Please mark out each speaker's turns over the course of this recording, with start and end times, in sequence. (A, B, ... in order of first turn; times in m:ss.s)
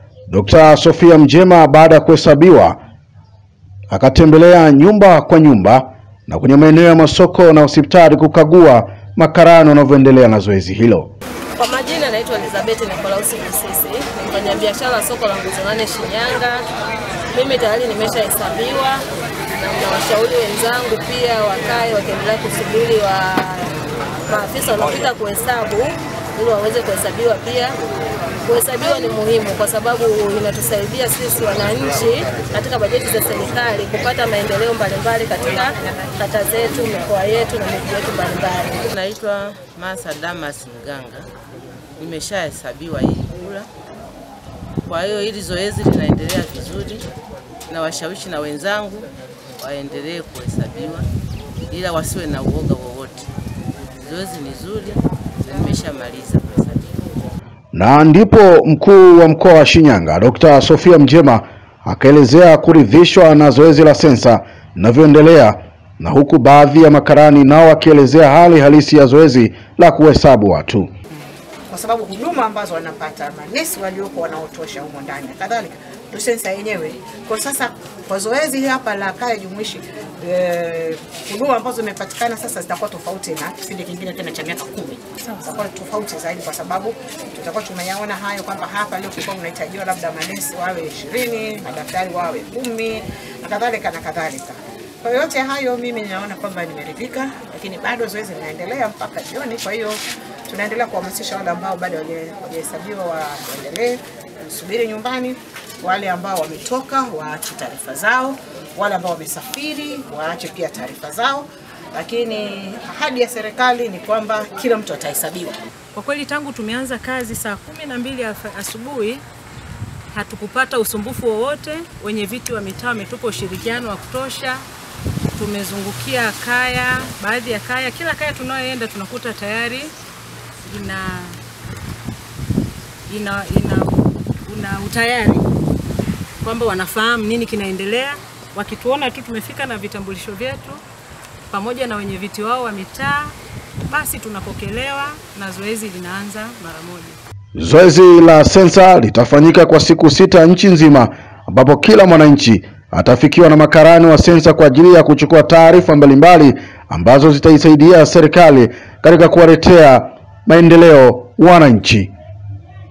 0:00.3-0:02.8 A
0:03.9-0:11.1 A
0:11.6-0:16.6 B
0:17.3-0:27.8 B
0:28.4-0:38.8 B
0:38.8-0:41.3 C
0:42.0-0:43.7 C
0:44.8-0:47.1 C
0:47.7-0:49.1 C
0:49.6-0:51.1 C
0:51.7-0:53.3 C
0:54.0-0:57.0 C
0:57.7-1:10.9 A
1:11.7-1:55.6 D
1:55.9-1:59.2 E
2:00.1-2:04.6 E
2:05.3-2:09.9 E
2:07.7-2:08.0 B
2:08.6-2:09.0 B
2:10.6-2:11.3 E
2:13.1-2:13.8 B
2:13.4-2:14.0 E
2:14.5-2:15.4 E
2:14.6-2:15.2 B
2:16.4-2:17.6 B
2:17.5-2:20.5 E
2:19.3-2:20.8 B
2:21.5-2:23.3 E
2:21.6-2:23.1 B
2:23.9-2:25.5 E
2:25.3-2:27.1 B
2:26.0-2:26.4 E
2:27.6-2:42.1 A